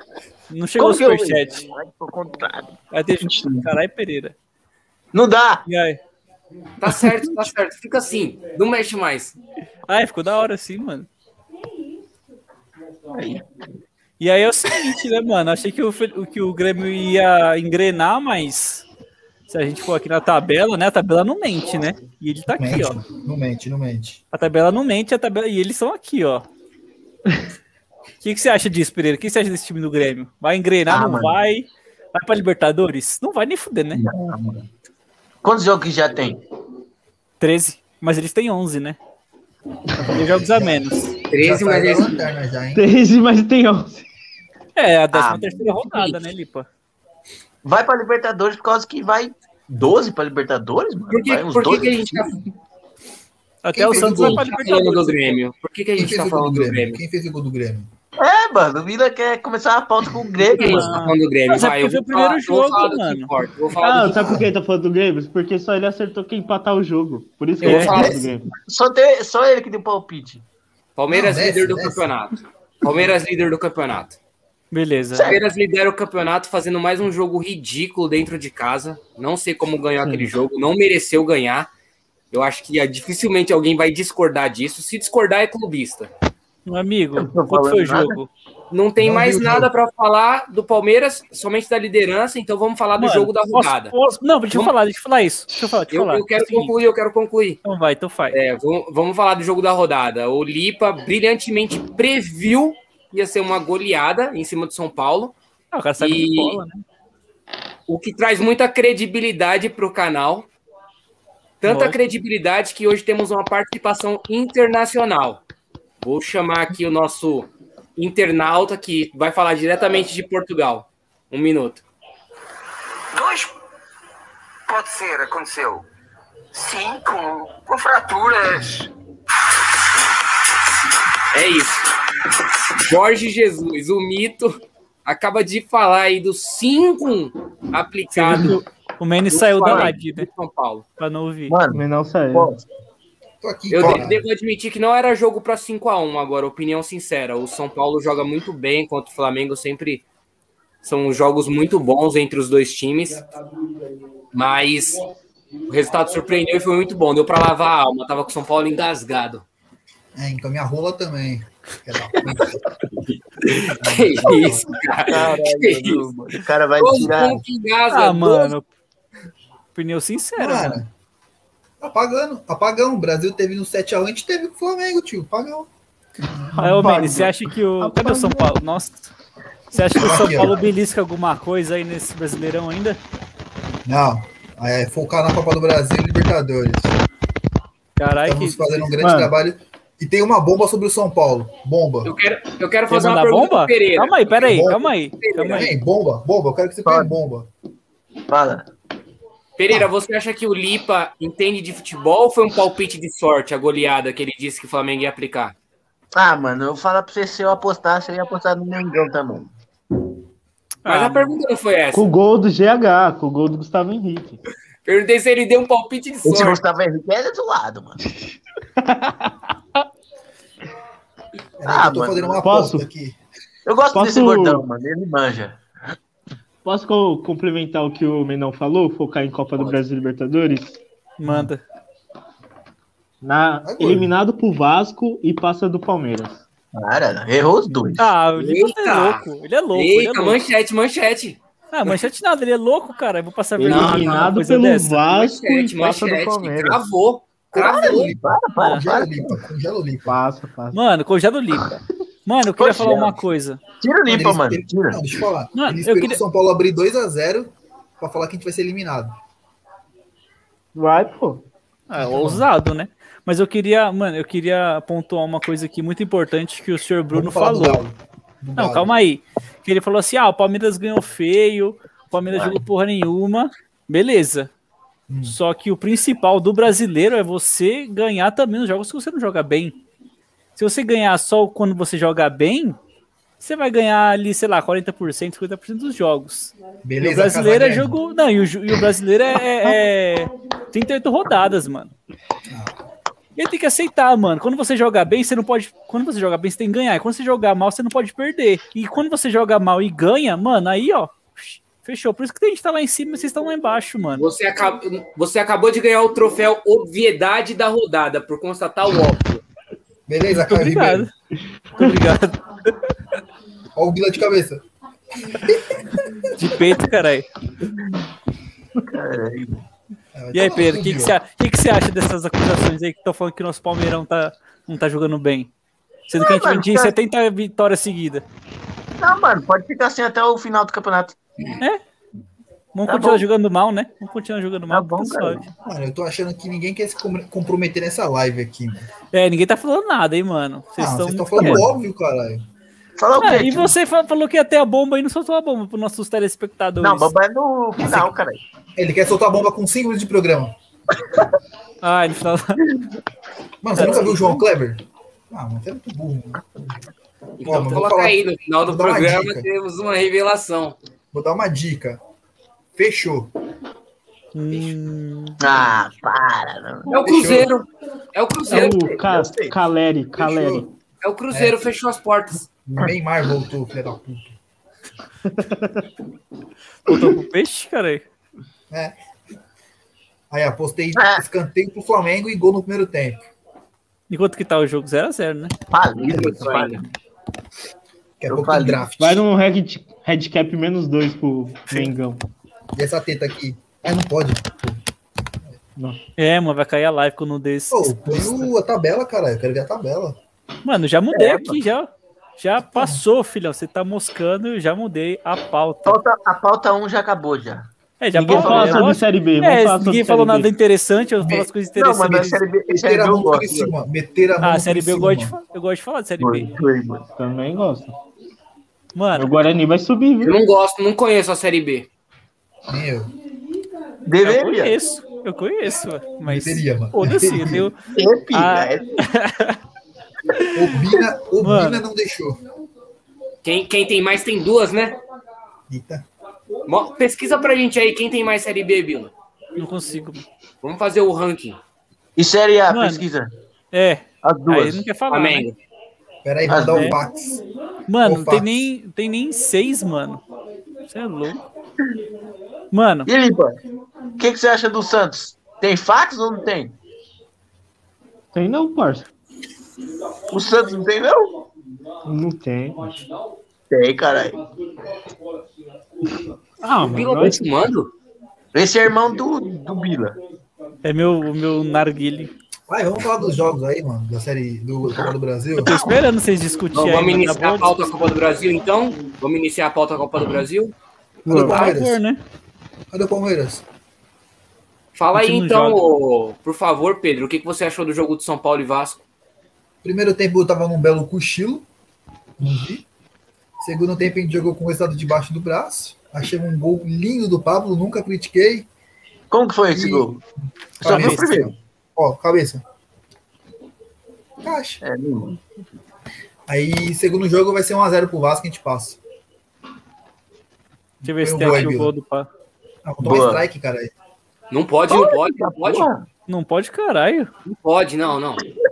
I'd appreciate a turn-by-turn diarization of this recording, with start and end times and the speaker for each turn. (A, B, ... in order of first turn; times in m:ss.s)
0:00.5-0:01.6 A
0:00.8-0:03.7 B
0:02.9-0:04.3 A
0:05.1-0:05.6 B
0:05.7-0:06.0 A
0:06.8-0:09.4 C
0:09.9-0:11.1 A
0:13.1-0:13.4 B
0:14.2-0:18.8 A
0:19.5-0:23.0 A
0:22.5-0:24.2 D
0:24.3-0:26.4 A
0:28.2-0:34.0 A
0:30.9-0:31.4 B
0:33.9-0:34.6 B
0:35.4-0:36.4 B
0:37.4-0:39.0 A
0:40.0-0:42.8 D
0:40.1-0:41.1 A
0:41.3-0:42.2 C
0:42.7-0:44.0 E
0:44.8-0:46.7 A
0:45.1-0:46.2 B
0:47.6-0:52.3 B
0:51.1-0:52.4 C
0:53.6-0:55.4 A
0:53.7-0:54.4 D
0:54.0-0:57.0 C
0:56.0-0:57.9 D
0:58.2-1:01.0 B
1:00.5-1:04.3 C
1:00.6-1:03.3 A
1:03.8-1:08.5 E
1:04.2-1:04.5 D
1:07.6-1:08.0 A
1:07.6-1:08.3 D
1:08.5-1:10.4 B
1:11.0-1:14.2 C
1:11.1-1:12.1 D
1:14.7-1:15.3 A
1:15.1-1:15.4 B
1:15.2-1:21.7 C
1:22.3-1:26.1 C
1:26.6-1:28.3 A
1:27.2-1:28.2 B
1:28.7-1:33.9 C
1:29.0-1:29.7 D
1:33.0-1:36.7 A
1:35.9-1:37.6 C
1:37.6-1:38.4 A
1:38.3-1:45.3 C
1:45.7-1:46.8 A
1:46.0-1:46.6 C
1:47.9-1:50.5 C
1:51.6-1:55.4 C
1:51.6-1:52.0 A
1:56.0-2:01.8 C
2:03.1-2:03.5 F
2:04.7-2:05.8 F
2:06.5-2:08.9 F
2:11.3-2:11.8 C
2:12.7-2:18.6 C
2:18.1-2:20.3 A
2:19.3-2:20.8 C
2:21.0-2:21.6 A
2:21.5-2:22.6 B
2:21.7-2:22.5 E
2:23.4-2:24.2 D
2:23.7-2:30.0 C
2:30.8-2:33.3 C
2:34.3-2:35.0 C
2:35.7-2:39.4 C
2:40.2-2:42.6 D
2:43.0-2:46.1 C
2:43.8-2:44.8 D
2:45.1-2:47.4 B
2:46.8-2:48.5 C
2:47.9-2:48.7 A
2:49.7-2:50.8 A
2:50.4-2:50.9 D
2:51.8-2:55.7 D
2:56.2-2:57.3 D
2:56.6-2:57.2 E
2:56.6-2:59.1 A
2:57.8-2:58.5 E
2:59.7-3:03.0 A
2:59.9-3:00.6 D
3:03.8-3:07.0 D
3:08.0-3:08.9 A
3:08.2-3:12.1 D
3:09.0-3:09.3 E
3:12.0-3:14.4 C
3:12.9-3:15.7 A
3:14.4-3:14.9 D
3:15.2-3:15.7 C
3:15.5-3:17.5 D
3:18.3-3:18.7 B
3:19.6-3:25.5 C
3:26.1-3:29.5 B
3:30.8-3:31.3 A
3:30.8-3:32.1 C
3:31.9-3:34.4 E
3:34.8-3:36.6 C
3:36.2-3:38.0 B
3:38.8-3:39.3 E
3:41.6-3:43.2 D
3:41.7-3:42.4 B
3:42.4-3:42.9 E
3:43.6-3:45.6 B
3:43.9-3:44.6 E
3:46.6-3:50.8 E
3:51.2-3:51.6 A
3:51.2-3:51.5 D
3:53.2-3:56.4 E
3:53.6-3:54.1 D
3:56.7-3:58.1 B
3:57.7-4:00.4 A
3:58.3-4:01.4 C
4:01.7-4:05.0 A
4:03.6-4:06.8 E
4:03.6-4:04.4 C
4:05.1-4:08.1 C
4:07.5-4:10.2 D
4:08.1-4:09.3 B
4:08.6-4:08.8 A
4:10.1-4:10.8 E
4:10.7-4:13.6 A
4:12.6-4:13.2 B
4:13.8-4:15.0 B
4:14.0-4:19.2 D
4:15.5-4:16.2 A
4:20.7-4:21.4 E
4:21.9-4:27.8 A
4:22.0-4:22.5 D
4:27.1-4:28.9 D
4:28.6-4:34.5 A
4:35.1-4:35.4 D
4:35.2-4:39.8 A
4:40.6-4:42.8 A
4:43.4-4:51.9 A
4:46.8-4:47.9 D
4:52.5-4:52.7 D
4:53.4-5:04.2 A
5:04.2-5:09.4 C
5:10.1-5:11.1 D
5:10.4-5:11.1 A
5:11.8-5:12.9 A
5:13.7-5:14.6 D
5:15.2-5:16.3 D
5:16.3-5:17.3 A
5:18.9-5:19.6 B
5:20.1-5:21.2 D
5:20.3-5:25.5 A
5:26.1-5:28.2 A
5:26.1-5:27.0 B
5:29.0-5:31.2 B
5:32.7-5:35.4 A
5:32.9-5:33.2 B
5:34.7-5:35.5 B
5:35.6-5:38.9 D
5:39.1-5:41.7 A
5:40.8-5:42.4 D
5:43.0-5:43.7 B
5:43.2-5:47.1 A
5:46.8-5:48.4 B
5:48.8-5:50.5 D
5:51.8-5:52.6 A
5:53.6-5:56.4 D
5:53.7-5:54.4 A
5:57.4-6:00.8 C
5:57.4-5:59.5 D
6:01.1-6:02.0 D
6:02.8-6:03.3 D
6:04.3-6:05.5 A
6:05.4-6:07.0 B
6:06.9-6:08.8 C
6:07.0-6:07.5 D
6:08.5-6:10.7 E
6:08.6-6:09.6 B
6:10.2-6:10.6 D
6:11.0-6:12.5 C
6:11.3-6:11.6 D
6:12.7-6:14.4 D
6:15.3-6:15.8 E
6:16.8-6:18.0 A
6:18.7-6:18.9 D
6:20.3-6:23.3 D
6:21.0-6:21.2 B
6:24.1-6:25.5 A
6:25.7-6:26.9 B
6:26.0-6:26.8 C
6:26.1-6:26.6 D
6:28.2-6:29.2 D
6:28.3-6:28.9 B
6:29.0-6:32.2 E
6:32.7-6:34.8 D
6:36.2-6:38.4 A
6:37.7-6:40.2 D
6:40.6-6:46.0 A
6:41.1-6:41.6 B
6:42.6-6:43.0 D
6:45.8-6:47.7 B
6:48.0-6:52.4 A
6:48.2-6:50.5 E
6:48.2-6:49.0 B
6:51.2-6:51.5 D
6:51.7-6:53.7 B
6:52.0-6:55.4 D
6:54.4-6:56.5 A
6:56.2-6:57.0 B
6:57.1-6:58.0 E
6:58.9-6:59.4 A
6:59.1-7:00.4 E
7:00.2-7:01.9 C
7:02.7-7:03.1 D
7:04.0-7:04.8 B
7:04.2-7:07.8 A
7:06.2-7:07.7 D
7:07.9-7:09.0 B
7:08.3-7:09.6 A
7:10.3-7:10.8 A
7:10.5-7:12.4 D
7:11.4-7:11.8 A
7:13.4-7:15.0 C
7:15.7-7:16.0 D
7:16.7-7:19.1 C
7:19.6-7:20.2 A
7:20.6-7:21.6 C
7:22.2-7:23.3 B
7:22.7-7:23.0 A
7:23.7-7:25.5 A
7:24.2-7:24.8 B
7:25.1-7:25.6 C
7:26.2-7:27.4 D
7:26.5-7:26.9 B
7:26.7-7:27.0 A
7:27.9-7:30.2 A
7:28.0-7:28.7 D
7:30.8-7:31.4 A
7:32.7-7:33.1 A
7:33.0-7:33.6 B
7:34.2-7:36.8 B
7:38.3-7:39.1 E
7:40.3-7:41.3 B
7:42.0-7:43.0 E
7:43.7-7:44.4 B
7:46.6-7:47.4 E
7:46.8-7:47.9 C
7:48.5-7:50.2 B
7:50.8-7:52.3 A
7:52.7-7:55.7 D
7:55.6-7:57.8 A
7:56.7-8:00.7 C
8:01.2-8:02.0 D
8:01.3-8:02.2 A
8:01.3-8:01.7 E
8:02.9-8:03.6 D
8:04.9-8:09.0 C
8:05.1-8:05.8 A
8:09.8-8:11.6 D
8:12.4-8:12.8 D
8:13.6-8:18.7 D
8:19.3-8:20.2 B
8:19.7-8:20.1 D
8:20.8-8:22.6 D
8:20.8-8:21.5 B
8:20.8-8:21.3 A
8:24.4-8:24.8 D
8:24.8-8:25.4 B
8:26.5-8:29.0 D
8:31.0-8:31.9 D
8:31.0-8:32.3 A
8:32.8-8:33.9 D
8:33.0-8:33.4 B
8:34.5-8:35.9 C
8:34.9-8:36.0 B
8:36.3-8:37.3 A
8:37.4-8:38.4 C